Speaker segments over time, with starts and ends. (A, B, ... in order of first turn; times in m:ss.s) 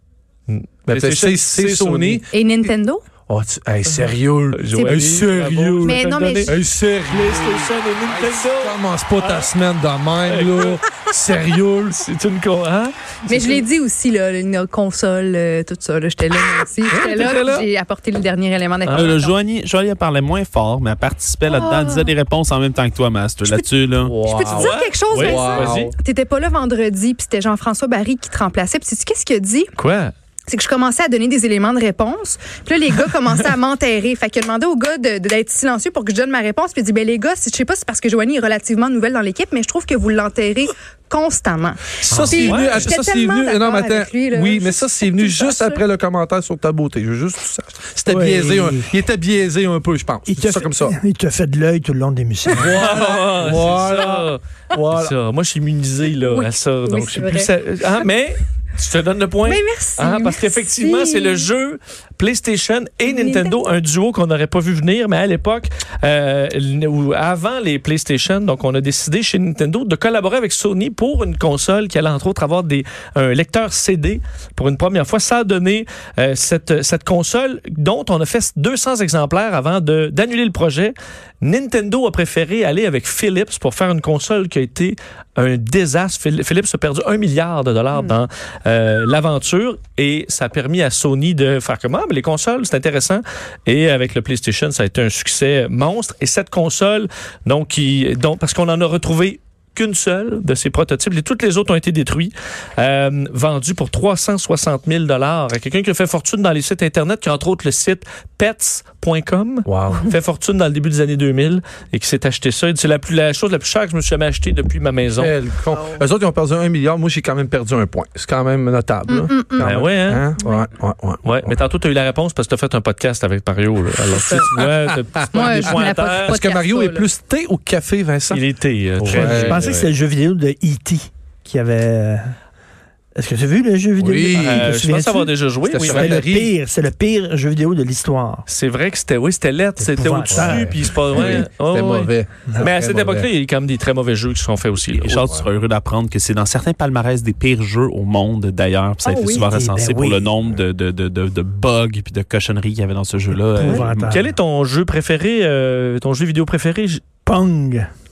0:00.5-0:02.2 A
0:00.9-0:02.3 B
0:02.3-0:03.0 C
0:03.3-0:12.0 B
0:04.5-0:06.6 A
0:04.7-0:05.1 C
0:05.8-0:06.5 C
0:07.1-0:09.5 A
0:10.3-0:10.8 A
0:11.9-0:13.6 A
0:13.3-0:19.4 C
0:16.9-0:17.6 A
0:18.8-0:19.2 A
0:18.9-0:24.2 D
0:21.4-0:22.1 C
0:24.0-0:25.9 B
0:24.2-0:29.7 C
0:24.4-0:25.9 A
0:29.8-0:30.1 A
0:30.5-0:45.8 C
0:42.0-0:42.9 A
0:42.1-0:50.9 B
0:48.1-0:48.9 E
0:50.3-0:52.8 E
0:52.5-0:54.4 A
0:52.5-0:55.1 B
0:54.9-1:55.3 A
0:56.2-0:57.5 C
0:59.4-1:01.5 C
1:03.1-1:03.6 C
1:49.6-1:50.1 B
1:55.2-2:01.5 B
1:59.1-1:59.8 C
1:59.6-2:00.3 A
2:00.4-2:00.7 C
2:01.2-2:06.4 A
2:04.1-2:04.5 C
2:05.3-2:07.1 C
2:05.6-2:08.4 B
2:08.3-2:09.9 A
2:09.0-2:12.3 E
2:09.0-2:09.6 B
2:13.2-2:18.4 E
2:14.0-2:14.8 B
2:14.3-2:16.2 A
2:15.7-2:16.5 B
2:18.5-2:25.2 A
2:19.8-2:21.2 E
2:20.3-2:23.3 B
2:24.9-2:34.1 D
2:25.2-2:25.5 B
2:29.0-2:29.5 C
2:29.5-2:30.3 E
2:33.6-2:34.3 E
2:34.0-2:37.0 A
2:37.2-2:37.9 E